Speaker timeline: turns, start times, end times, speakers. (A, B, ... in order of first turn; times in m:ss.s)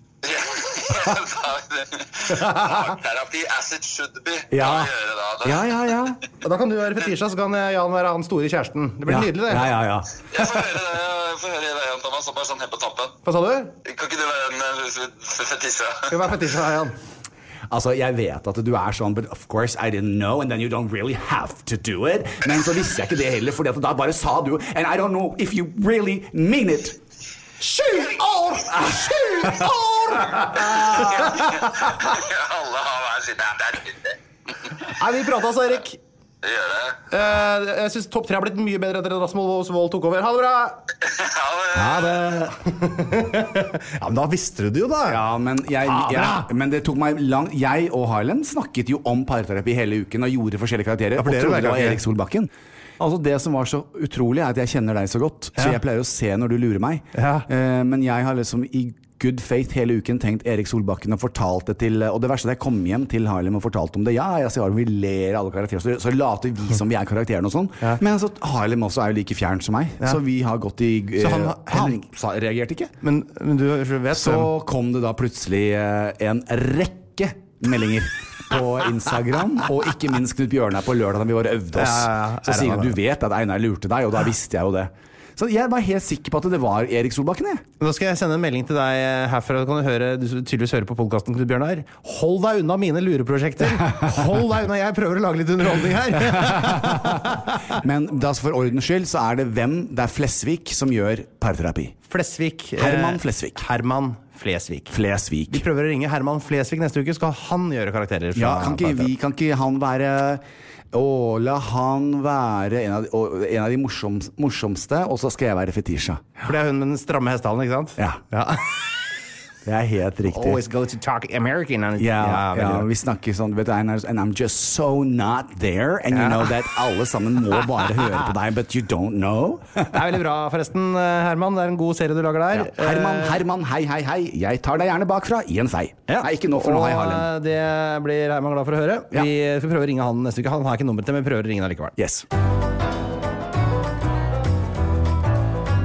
0:00.2-0:05.6 A
0:04.5-0:06.2 B
0:06.4-0:09.7 C
0:09.1-0:10.5 B
0:10.3-0:13.2 A
0:13.2-0:13.7 C
0:13.8-0:16.2 A
0:16.1-0:17.0 C
0:17.7-0:27.0 B
0:27.6-0:32.1 C
0:30.1-0:34.7 A
0:35.0-0:36.0 C
0:36.4-0:37.0 A
0:37.1-0:40.8 C
0:41.0-0:42.3 A
0:41.7-0:45.2 C
0:45.1-1:13.0 B
0:45.8-0:46.5 C
0:51.2-0:52.0 C
0:57.1-0:57.5 C
1:11.2-1:12.0 C
1:13.0-1:14.5 C
1:14.1-1:27.6 B
1:21.7-1:23.0 C
1:27.8-1:37.8 C
1:36.1-1:42.0 B
1:42.1-1:44.9 C
1:42.8-1:43.6 B
1:44.9-1:45.6 B
1:45.5-1:49.1 C
1:48.3-1:56.3 B
1:56.4-1:58.9 C
1:58.0-1:58.2 B
1:59.6-2:00.6 B
2:00.3-2:02.9 C
2:02.0-2:10.1 B
2:06.1-2:06.6 C
2:09.9-2:13.4 C
2:12.5-2:17.3 B
2:16.1-2:21.9 C
2:22.0-2:22.2 B